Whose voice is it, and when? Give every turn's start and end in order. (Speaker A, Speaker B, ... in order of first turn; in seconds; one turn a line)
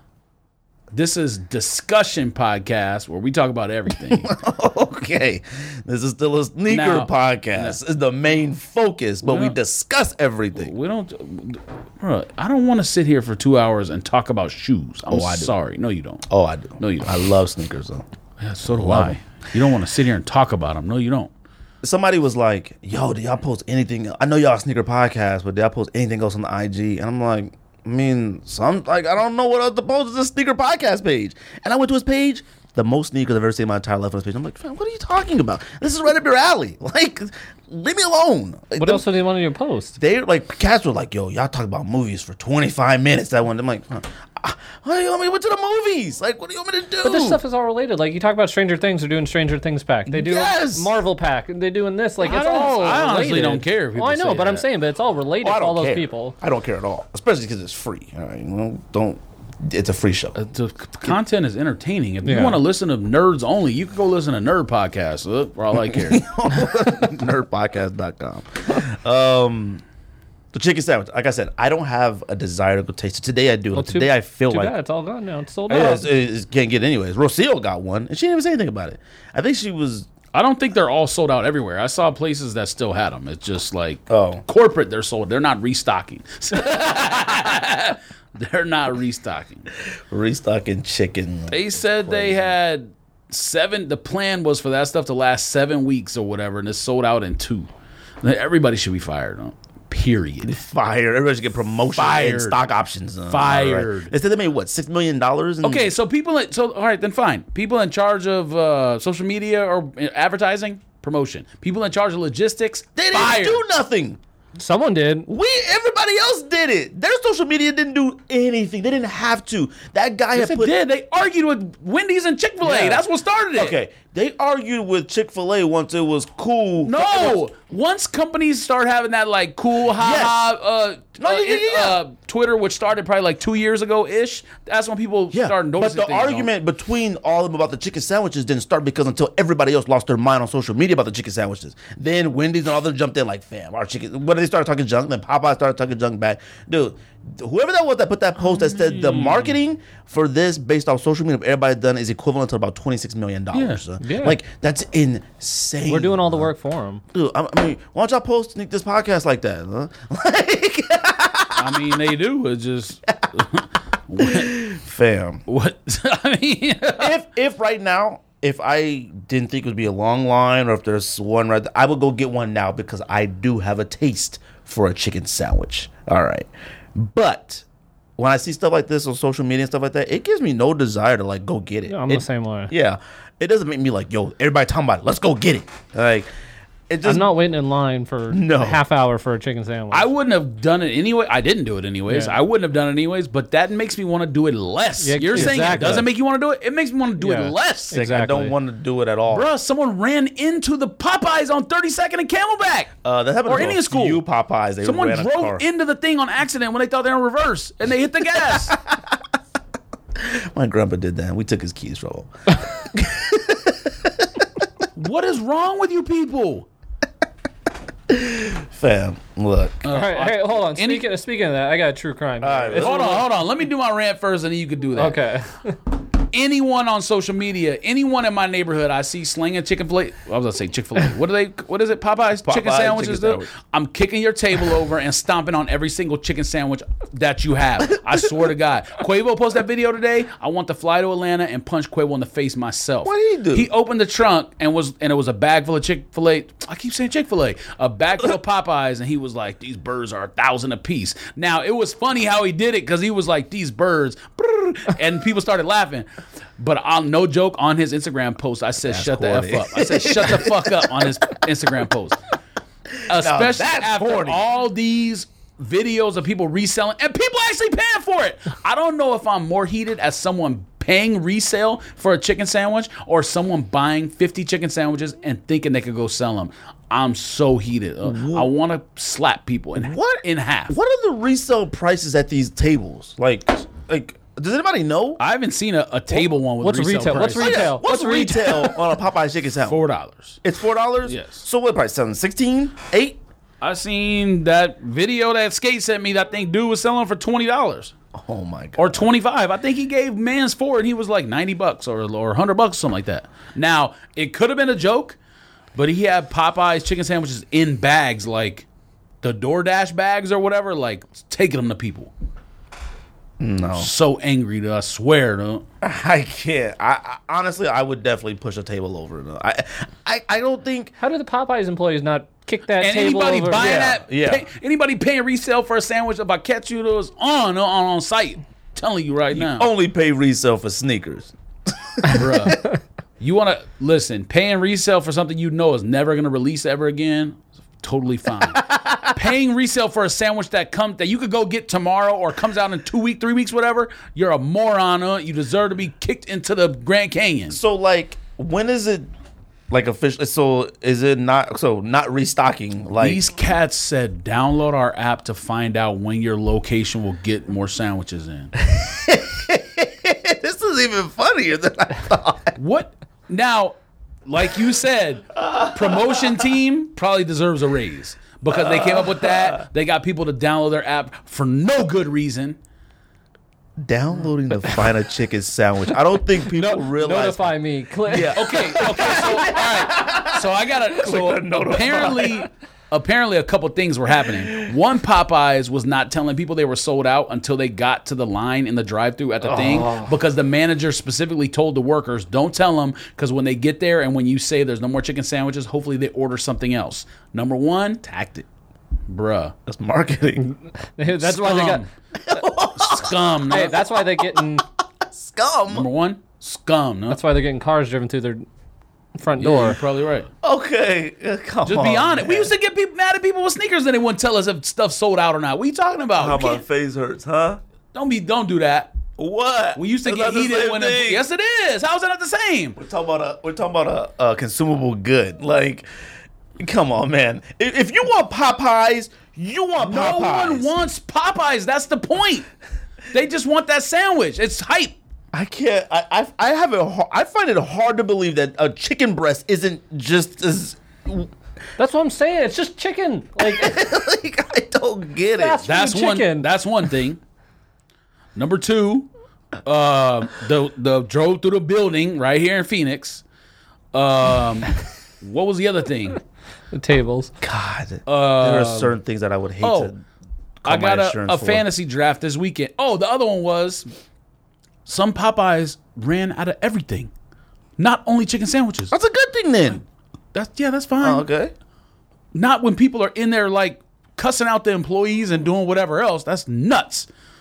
Speaker A: 0.9-4.3
Speaker B: 4.1-10.7
Speaker A: 6.7-7.8
Speaker A: 9.2-9.6
Speaker A: 10.5-16.3
Speaker B: 15.1-15.5
Speaker B: 16.3-18.1
Speaker A: 16.8-17.1
Speaker A: 18.4-21.3
Speaker B: 18.7-19.2
Speaker B: 21.8-39.0
Speaker C: 38.8-40.0
Speaker B: 40.0-47.4
Speaker C: 47.0-56.4
Speaker B: 50.1-51.0
Speaker A: 52.2-54.6
Speaker B: 55.4-60.4
Speaker A: 60.4-66.2
Speaker C: 62.2-62.6
Speaker B: 65.7-69.8
Speaker B: 70.5-74.7
Speaker C: 73.7-76.1
Speaker B: 75.7-80.1
Speaker A: 80.3-89.7
Speaker B: 84.1-84.4
Speaker B: 90.1-92.5
Speaker A: 91.5-97.7
Speaker A: 98.2-100.6
Speaker B: 100.4-105.9
Speaker A: 101.9-102.6
Speaker A: 103.3-104.1
Speaker A: 105.6-113.6
Speaker B: 113.0-114.2
Speaker C: 114.6-115.3
Speaker B: 115.3-120.7
Speaker A: 120.3-123.8
Speaker B: 122.6-123.0
Speaker B: 123.5-127.4
Speaker A: 126.8-136.5
Speaker B: 129.9-130.4
Speaker B: 131.2-132.0
Speaker B: 135.3-156.5
Speaker A: 148.4-149.6
Speaker A: 153.5-153.8
Speaker C: 154.0-154.4
Speaker C: 155.9-157.0
Speaker B: 157.1-161.9
Speaker A: 161.6-164.6
Speaker B: 164.2-165.4
Speaker A: 165.5-167.2
Speaker B: 167.0-177.6
Speaker B: 178.2-186.3
Speaker C: 181.9-182.7
Speaker B: 186.9-187.3
Speaker C: 187.0-190.1
Speaker B: 188.3-188.8
Speaker A: 189.9-198.0
Speaker C: 192.1-192.4
Speaker C: 195.0-196.1
Speaker B: 195.3-196.1
Speaker C: 197.2-198.5
Speaker B: 197.9-199.5
Speaker A: 199.3-202.9
Speaker B: 203.0-205.6
Speaker A: 203.4-204.2
Speaker A: 204.8-208.8
Speaker B: 208.5-209.1
Speaker B: 210.1-214.4
Speaker A: 214.9-216.7
Speaker B: 218.1-219.9
Speaker A: 219.8-221.1
Speaker C: 219.9-223.2
Speaker B: 222.4-223.3
Speaker A: 222.8-225.2
Speaker C: 224.9-225.8
Speaker A: 226.3-256.1
Speaker B: 232.4-233.5
Speaker B: 237.9-238.3
Speaker B: 243.0-243.7
Speaker A: 256.6-262.2
Speaker B: 258.8-261.2
Speaker B: 263.0-264.4
Speaker A: 263.1-280.8
Speaker B: 278.0-278.5
Speaker B: 279.8-285.2
Speaker A: 285.2-287.7
Speaker C: 286.6-288.8
Speaker B: 287.1-289.8
Speaker A: 289.6-290.4
Speaker B: 290.4-293.2
Speaker A: 291.1-291.4
Speaker A: 293.6-297.9
Speaker B: 298.1-299.1
Speaker A: 298.8-305.2
Speaker A: 305.7-308.7
Speaker A: 309.2-312.1
Speaker B: 313.4-313.9
Speaker A: 313.7-315.6
Speaker B: 315.8-320.9
Speaker C: 321.0-323.9
Speaker A: 322.8-329.7
Speaker B: 323.5-324.4
Speaker B: 329.3-332.6
Speaker A: 332.1-332.7
Speaker A: 333.2-347.6
Speaker B: 338.5-339.2
Speaker B: 347.5-349.1
Speaker B: 349.7-353.2
Speaker A: 353.0-358.5
Speaker B: 358.6-362.5
Speaker A: 362.6-372.6
Speaker B: 365.4-366.4
Speaker B: 368.5-369.6
Speaker B: 373.8-377.5
Speaker C: 376.6-378.5
Speaker B: 378.0-382.4
Speaker A: 378.3-398.4
Speaker B: 389.5-390.0
Speaker B: 398.1-398.4
Speaker A: 399.1-399.5
Speaker B: 399.6-400.5
Speaker C: 401.0-401.9
Speaker A: 401.1-401.9
Speaker B: 402.1-405.9
Speaker A: 402.8-403.8
Speaker C: 403.5-404.6
Speaker A: 405.7-407.2
Speaker C: 407.1-408.4
Speaker C: 409.1-409.8
Speaker A: 409.4-410.3
Speaker B: 410.4-412.5
Speaker A: 411.6-416.6
Speaker B: 416.2-417.6
Speaker A: 417.9-418.9
Speaker B: 419.2-421.2
Speaker A: 419.8-422.8
Speaker B: 422.8-425.9
Speaker B: 426.6-430.7
Speaker A: 429.8-432.4
Speaker A: 433.1-434.9
Speaker B: 435.3-441.3
Speaker C: 441.8-443.7
Speaker B: 443.4-445.6
Speaker C: 445.4-446.5
Speaker A: 445.6-447.2
Speaker A: 448.3-449.1
Speaker A: 449.6-453.2
Speaker A: 453.9-456.2
Speaker C: 456.7-457.3
Speaker B: 457.4-460.0
Speaker A: 458.1-458.9
Speaker A: 459.6-459.9
Speaker B: 460.6-461.6
Speaker A: 460.6-463.9
Speaker A: 464.9-467.1
Speaker A: 467.8-468.9
Speaker B: 468.9-469.8
Speaker A: 470.3-471.3
Speaker B: 471.0-471.5
Speaker A: 472.3-477.1